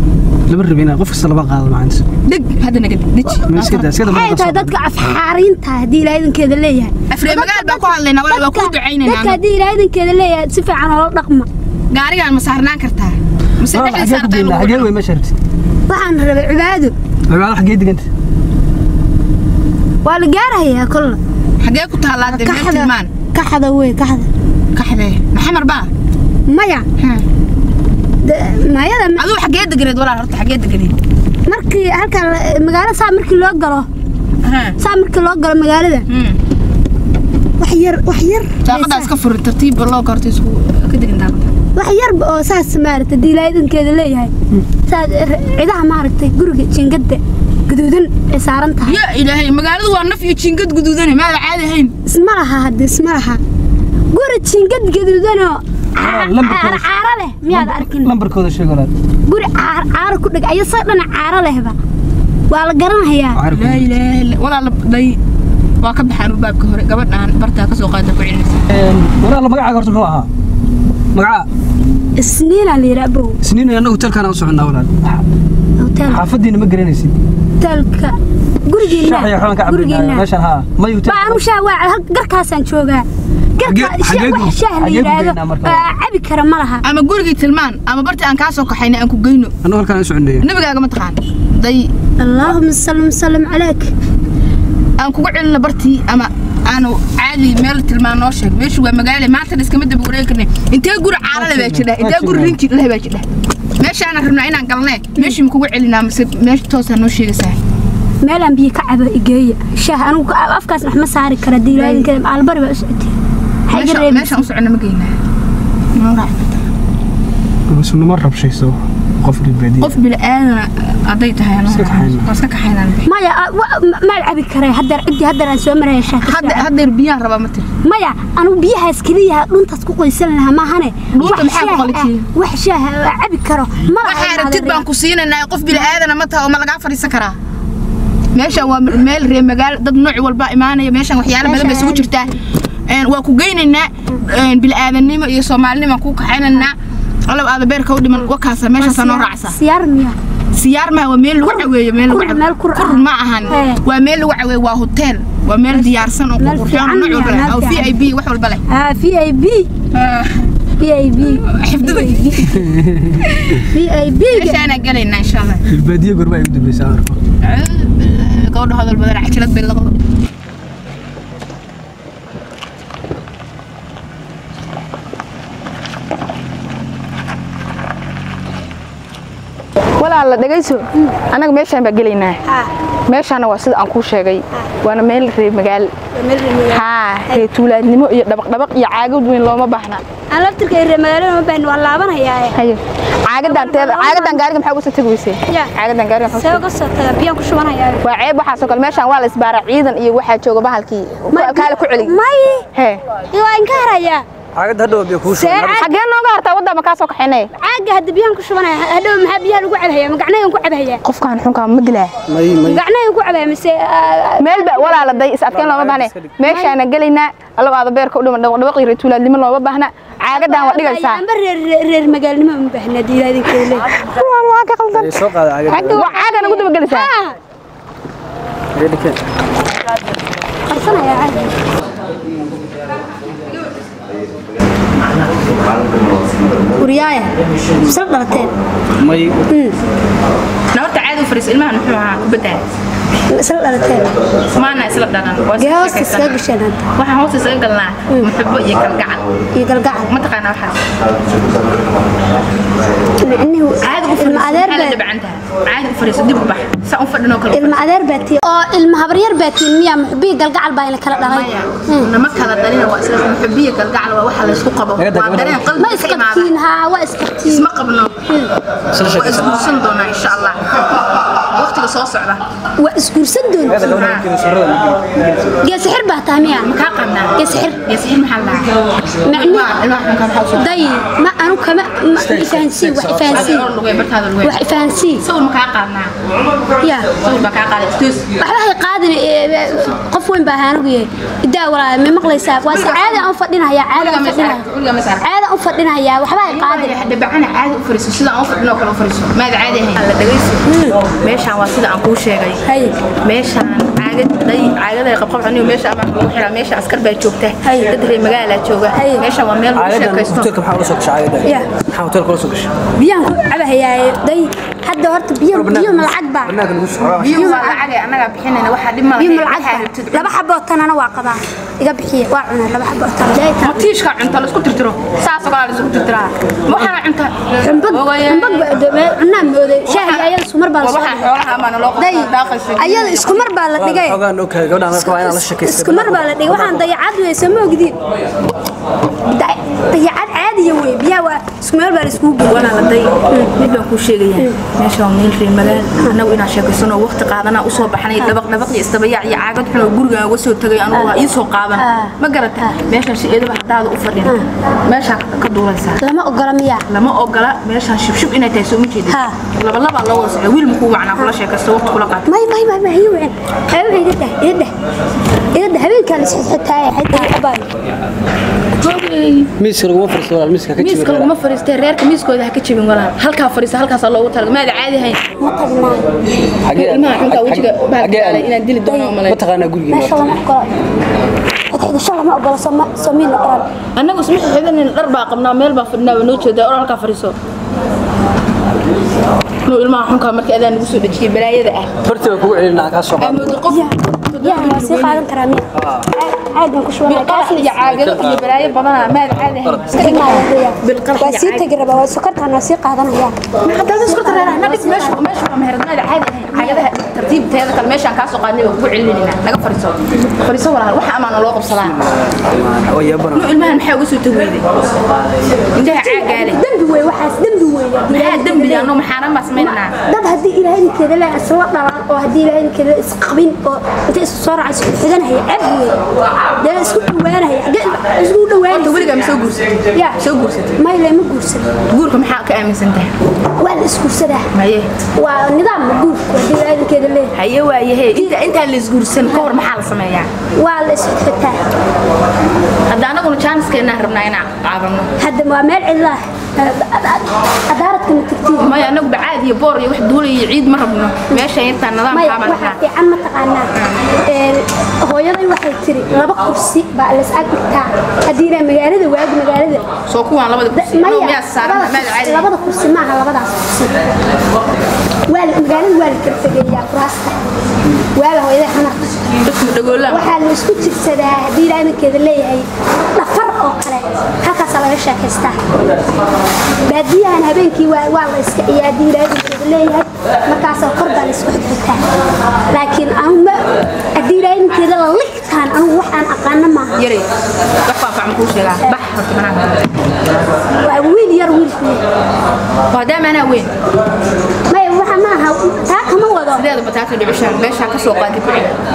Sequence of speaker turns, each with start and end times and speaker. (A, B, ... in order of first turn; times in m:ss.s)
0:00.5-0:02.0 A
0:02.3-0:03.9 B
0:03.5-0:04.7 A
0:04.0-0:11.5 C
0:07.1-0:09.4 B
0:11.9-0:14.9 B
0:13.7-0:15.3 A
0:15.9-0:17.0 C
0:17.3-0:18.1 A
0:20.0-0:21.2 C
0:21.6-0:23.1 B
0:22.3-0:24.3 C
0:24.8-0:25.9 B
0:26.5-0:26.9 C
0:27.0-0:27.2 B
0:28.2-0:29.2 C
0:29.2-0:31.0 B
0:31.5-0:33.9 C
0:34.4-0:34.8 B
0:34.8-0:36.1 C
0:36.1-0:36.4 B
0:37.6-0:39.1 C
0:38.6-0:41.5 B
0:41.8-0:44.3 C
0:44.8-0:49.0 C
0:48.8-0:51.9 B
0:52.1-0:53.4 C
0:54.1-0:58.1 C
0:56.0-0:56.9 A
0:57.5-0:58.9 A
0:59.3-1:01.8 C
1:02.5-1:03.4 C
1:03.4-1:03.9 A
1:03.5-1:05.2 B
1:05.8-1:08.6 B
1:08.7-1:10.3 A
1:11.1-1:11.5 A
1:12.2-1:13.4 C
1:13.4-1:15.2 A
1:15.8-1:16.2 C
1:16.1-1:17.2 A
1:17.6-1:20.3 C
1:18.8-1:21.4 A
1:21.0-1:26.8 C
1:23.6-1:25.8 A
1:26.8-1:29.6 B
1:29.6-1:30.5 A
1:30.4-1:31.9 B
1:32.2-1:33.9 C
1:35.0-1:43.3 B
1:41.3-1:42.6 A
1:43.8-1:47.6 B
1:48.2-1:53.2 C
1:51.7-1:52.1 B
1:53.7-1:54.4 C
1:53.7-1:55.1 B
1:56.0-1:56.7 B
1:57.7-1:59.9 A
1:59.8-2:03.1 B
2:01.7-2:02.3 A
2:03.0-2:06.7 C
2:06.2-2:07.7 B
2:07.8-2:14.8 C
2:11.1-2:12.3 B
2:14.0-2:17.4 B
2:18.3-2:22.4 B
2:21.4-2:22.1 C
2:22.9-2:29.6 B
2:28.8-2:30.2 C
2:30.5-2:38.6 B
2:31.4-2:33.8 C
2:35.7-2:37.9 C
2:38.7-2:39.7 C
2:39.9-2:40.5 B
2:40.8-2:42.6 C
2:41.2-2:42.6 B
2:42.5-2:43.2 A
2:43.2-2:43.7 B
2:43.6-2:44.7 C
2:44.3-2:45.7 B
2:45.7-2:47.2 A
2:47.4-2:50.0 B
3:00.0-3:02.4 B
3:02.5-3:02.7 C
3:03.1-3:05.9 B
3:06.1-3:07.4 C
3:06.7-3:10.0 B
3:10.3-3:12.6 C
3:12.6-3:16.6 B
3:13.4-3:14.4 C
3:16.3-3:18.0 C
3:18.0-3:22.2 B
3:21.3-3:22.7 C
3:22.7-3:23.0 B
3:23.3-3:24.2 C
3:24.6-3:25.9 A
3:25.3-3:25.9 C
3:25.8-3:27.5 B
3:27.6-3:31.0 C
3:31.0-3:32.1 B
3:32.3-3:32.8 A
3:32.6-3:35.2 C
3:34.4-3:41.2 B
3:35.5-3:36.4 A
3:36.4-3:36.7 C
3:40.3-3:44.0 C
3:44.0-3:47.1 B
3:44.9-3:46.1 A
3:46.0-3:47.4 C
3:48.8-3:49.2 A
3:50.7-3:51.5 C
3:56.8-3:57.3 C
3:57.8-3:58.5 C
3:59.0-3:59.4 A
3:59.5-3:59.8 C
4:00.7-4:02.6 B
4:03.3-4:04.1 C
4:04.5-4:06.4 B
4:05.6-4:06.8 C
4:07.0-4:09.2 B
4:09.5-4:10.1 C
4:09.8-4:10.8 B
4:13.2-4:15.0 C
4:13.8-4:17.8 B
4:17.5-4:22.1 C
4:21.2-4:26.5 B
4:25.0-4:25.9 A
4:25.8-4:27.7 C
4:27.4-4:28.2 B
4:28.3-4:28.5 C
4:28.9-4:29.7 A
4:29.0-4:30.6 B
4:31.5-4:32.4 B
4:32.8-4:33.9 C
4:33.7-4:35.6 A
4:33.8-4:34.2 B
4:35.6-4:36.7 C
4:36.4-4:38.7 B
4:37.4-4:37.8 C
4:39.2-4:39.7 C
4:39.2-4:41.0 B
4:40.6-4:43.7 C
4:42.2-4:43.6 A
4:43.3-4:44.6 B
4:44.4-4:45.2 C
4:45.2-4:46.1 B
4:46.8-4:47.1 C
4:47.2-4:48.3 B
4:48.4-4:54.6 C
4:52.6-4:53.3 B
4:53.9-4:55.3 B
4:55.2-4:57.0 C
4:56.5-5:00.6 B
5:00.7-5:01.0 C
5:01.2-5:02.6 B
5:02.7-5:03.0 C
5:03.2-5:10.5 B
5:08.9-5:09.2 C
5:09.8-5:12.7 A
5:11.4-5:11.7 C
5:13.0-5:16.6 C
5:15.5-5:17.6 A
5:17.2-5:20.3 B
5:17.4-5:17.8 C
5:19.2-5:23.9 C
5:23.6-5:28.7 B
5:27.6-5:34.2 C
5:29.9-5:33.5 B
5:33.8-5:36.9 A
5:34.9-5:38.0 C
5:39.3-5:43.5 C
5:42.5-5:56.0 B
5:51.8-5:52.1 C
5:56.0-5:56.9 C
5:56.9-6:02.3 B
5:59.1-5:59.4 C
6:02.3-6:04.7 C
6:05.5-6:07.6 C
6:08.8-6:09.5 B
6:09.6-6:11.3 A
6:10.8-6:15.2 B
6:15.4-6:16.0 C
6:16.6-6:18.5 A
6:16.7-6:19.4 B
6:18.9-6:19.2 C
6:19.2-6:20.3 A
6:19.9-6:20.7 C
6:21.7-6:23.7 C
6:24.0-6:27.4 B
6:29.7-6:31.9 B
6:32.0-6:33.6 A
6:33.2-6:35.2 B
6:33.6-6:37.9 C
6:35.8-6:36.1 A
6:37.1-6:41.7 B
6:37.9-6:38.5 A
6:39.9-6:43.4 C
6:43.6-6:52.0 B
6:44.0-6:45.2 C
6:46.5-6:46.9 C
6:52.3-6:53.5 A
6:53.3-6:54.7 B
6:55.7-6:56.6 B
6:55.8-6:58.9 C
6:58.1-6:59.9 B
6:59.6-7:06.0 C
7:06.6-7:09.1 C
7:08.7-7:10.8 B
7:10.8-7:11.7 C
7:11.9-7:13.1 B
7:13.6-7:14.5 C
7:14.5-7:14.9 B
7:15.2-7:17.3 C
7:17.3-7:20.3 B
7:19.2-7:19.5 C
7:20.6-7:21.6 C
7:22.9-7:25.1 B
7:25.2-7:28.8 C
7:28.6-7:32.8 B
7:32.1-7:33.7 C
7:33.7-7:34.0 B
7:34.2-7:39.8 C
7:40.1-7:42.5 B
7:40.8-7:44.1 C
7:45.3-7:47.4 C
7:48.2-7:49.3 C
7:49.4-7:50.3 B
7:50.1-7:55.7 C
7:56.9-8:02.0 C
8:02.7-8:07.0 C
8:07.0-8:07.3 B
8:07.8-8:10.0 B
8:10.8-8:12.0 C
8:12.9-8:13.7 B
8:14.7-8:16.6 C
8:16.5-8:18.8 B